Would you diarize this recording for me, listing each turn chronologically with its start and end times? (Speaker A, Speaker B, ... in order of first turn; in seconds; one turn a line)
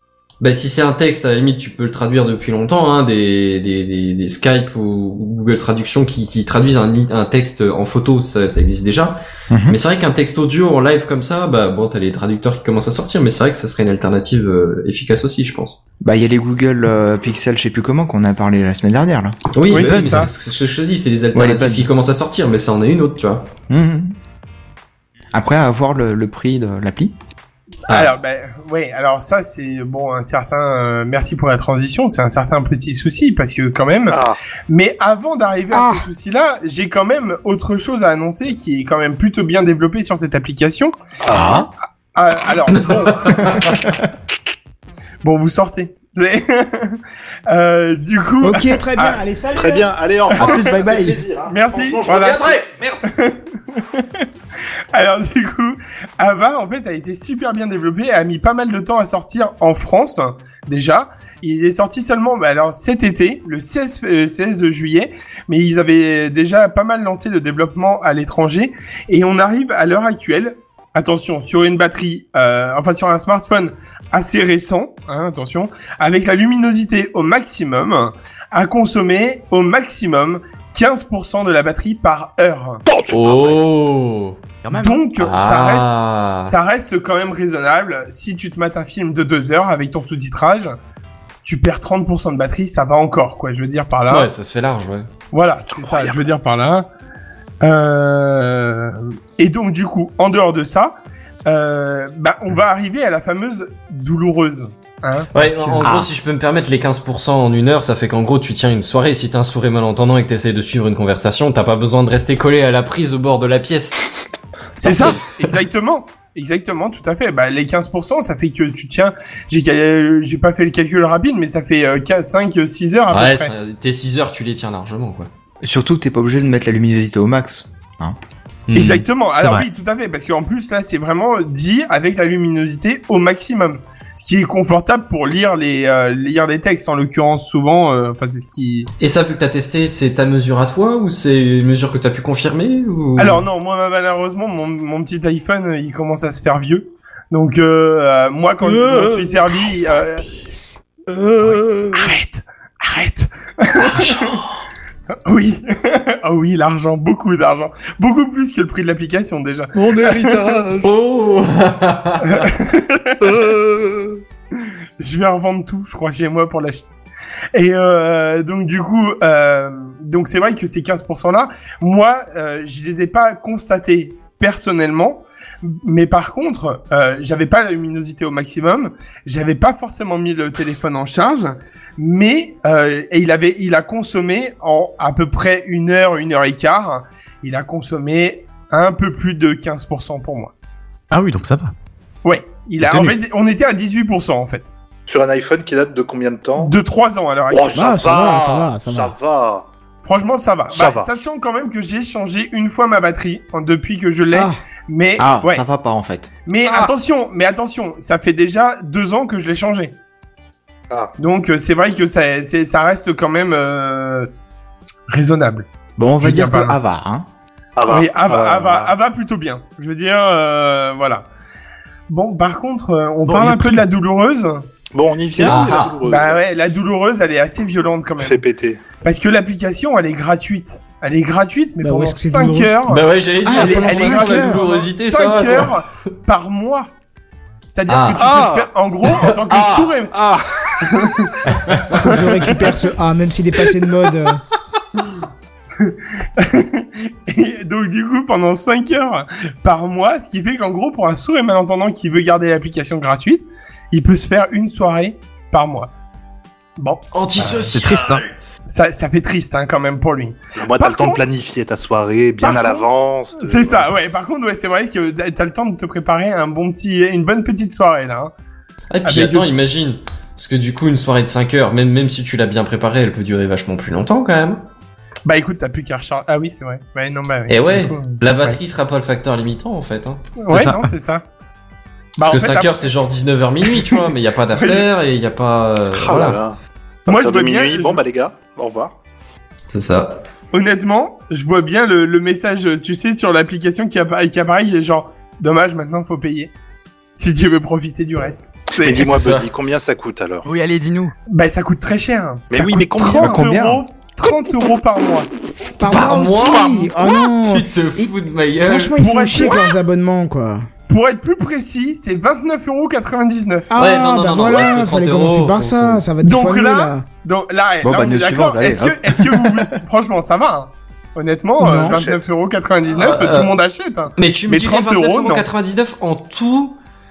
Speaker A: 0.4-15.8
Speaker B: 9.5-9.8
Speaker B: 16.0-19.4
Speaker A: 19.5-23.5
Speaker C: 19.7-20.3
Speaker D: 19.7-20.3
Speaker B: 21.3-21.9
Speaker B: 23.7-24.1
Speaker B: 25.3-27.1
Speaker C: 27.9-43.9
Speaker E: 34.1-34.4
Speaker E: 35.8-36.0
Speaker E: 41.2-41.7
Speaker B: 41.3-41.6
Speaker C: 45.2-49.2
Speaker F: 48.4-49.9
Speaker E: 49.6-53.0
Speaker B: 50.4-51.2
Speaker C: 50.4-50.7
Speaker C: 51.5-54.2
Speaker C: 54.9-82.8
Speaker E: 82.8-83.6
Speaker A: 83.1-84.4
Speaker D: 84.6-85.0
Speaker C: 84.7-90.8
Speaker A: 85.2-86.5
Speaker C: 91.5-94.3
Speaker A: 94.1-95.1
Speaker C: 95.3-96.9
Speaker E: 95.7-96.2
Speaker C: 97.6-101.0
Speaker C: 101.5-105.9
Speaker A: 105.3-114.0
Speaker B: 105.8-106.1
Speaker C: 114.8-123.5
Speaker A: 114.9-115.2
Speaker A: 123.1-125.3
Speaker B: 125.6-128.2
Speaker A: 128.7-129.0
Speaker C: 128.7-138.9
Speaker A: 139.0-143.4
Speaker C: 143.2-150.2
Speaker E: 148.6-149.4
Speaker F: 149.8-150.8
Speaker E: 151.1-152.1
Speaker C: 151.9-154.4
Speaker C: 155.2-160.6
Speaker E: 159.7-160.9
Speaker A: 160.8-162.5
Speaker C: 162.2-163.2
Speaker E: 163.2-164.2
Speaker C: 164.6-166.9
Speaker C: 167.5-190.5
Speaker D: 191.1-191.7
Speaker C: 192.2-194.7
Speaker D: 192.8-193.2
Speaker E: 195.1-196.8
Speaker C: 196.6-197.8
Speaker E: 197.5-199.7
Speaker F: 197.7-199.2
Speaker C: 200.0-205.6
Speaker E: 200.7-201.1
Speaker F: 204.3-204.6
Speaker B: 205.2-206.3
Speaker C: 206.5-209.9
Speaker E: 206.7-206.9
Speaker C: 211.2-214.3
Speaker C: 215.1-215.7
Speaker B: 216.0-217.3
Speaker C: 216.2-216.8
Speaker E: 217.8-218.9
Speaker C: 217.8-221.2
Speaker C: 222.1-224.7
Speaker D: 223.3-223.8
Speaker E: 224.9-226.4
Speaker A: 225.4-226.0
Speaker C: 226.0-228.4
Speaker E: 228.2-228.8
Speaker C: 229.0-236.9
Speaker F: 231.8-232.7
Speaker A: 232.9-235.8
Speaker F: 233.4-234.7
Speaker C: 237.7-240.1
Speaker A: 237.9-238.3
Speaker E: 238.2-238.7
Speaker E: 239.5-240.9
Speaker C: 240.8-241.3
Speaker C: 241.9-242.5
Speaker F: 242.0-244.4
Speaker C: 245.8-255.9
Speaker A: 257.1-258.2
Speaker D: 257.4-258.2
Speaker C: 258.7-261.2
Speaker E: 260.6-263.9
Speaker C: 262.4-262.9
Speaker C: 263.4-268.3
Speaker A: 268.9-274.6
Speaker C: 269.0-269.5
Speaker C: 275.2-278.6
Speaker A: 277.5-280.3
Speaker C: 280.4-281.2
Speaker D: 280.5-280.9
Speaker C: 282.2-282.9
Speaker A: 282.2-286.4
Speaker C: 283.6-284.8
Speaker E: 285.9-288.9
Speaker C: 287.1-288.0
Speaker A: 289.7-290.2
Speaker C: 290.5-296.5
Speaker C: 297.2-299.3
Speaker E: 298.7-300.5
Speaker A: 299.1-299.5
Speaker D: 300.4-301.1
Speaker C: 301.3-305.3
Speaker E: 302.5-303.5
Speaker B: 303.1-303.8
Speaker F: 305.8-308.1
Speaker A: 305.8-309.0
Speaker F: 308.6-310.7
Speaker C: 309.0-309.7
Speaker C: 310.9-313.7
Speaker F: 313.7-317.0
Speaker A: 313.8-316.0
Speaker C: 316.2-325.4
Speaker B: 317.8-319.6
Speaker F: 321.6-322.0
Speaker E: 321.8-322.2
Speaker A: 322.9-323.5
Speaker A: 324.2-326.8